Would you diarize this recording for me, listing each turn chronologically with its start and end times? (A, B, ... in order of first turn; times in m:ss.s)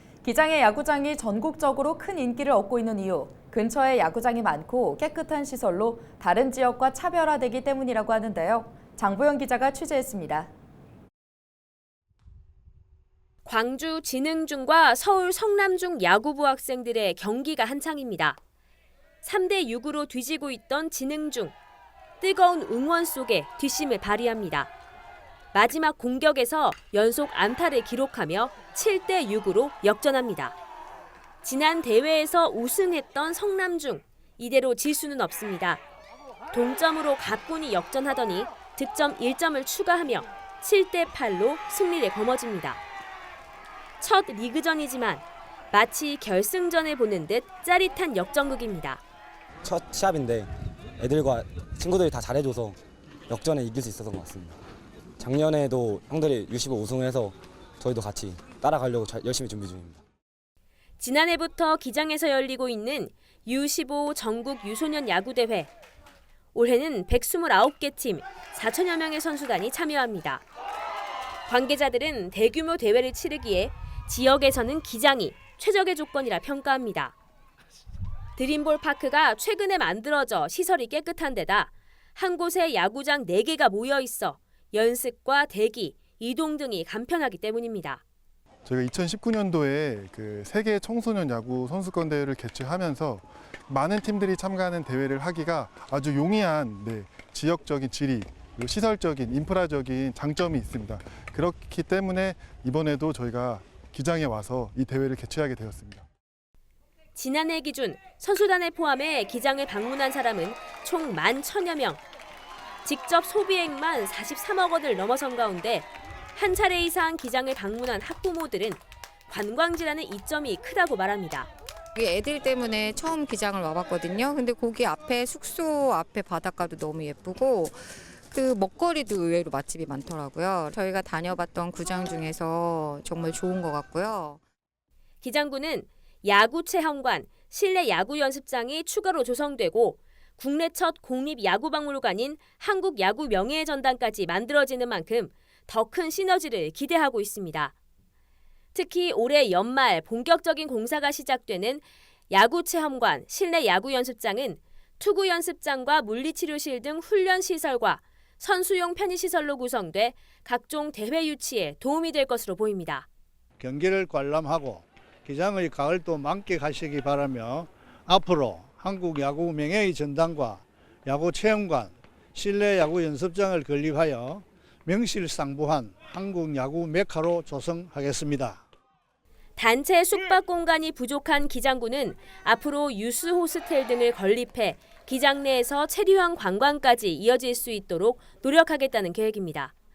0:00.2-0:10.5 A
0:13.4-0:18.4 B
0:19.2-0:21.6 B
0:22.2-0:24.7 B
0:25.5-0:30.6 B
0:31.4-0:35.8 B
0:36.5-0:42.8 B
0:44.0-0:49.0 B
0:49.6-0:54.6 C
0:55.2-1:00.0 C
1:01.0-1:05.7 B
1:06.6-1:10.4 B
1:11.5-1:17.1 B
1:18.4-1:28.0 B
1:28.6-1:46.0 D
1:47.1-1:52.0 B
1:52.8-2:01.5 B
2:02.0-2:07.8 E
2:08.3-2:14.4 E
2:15.2-2:27.7 B
2:28.7-2:43.1 B
2:43.6-2:58.6 F
2:59.6-3:09.7 B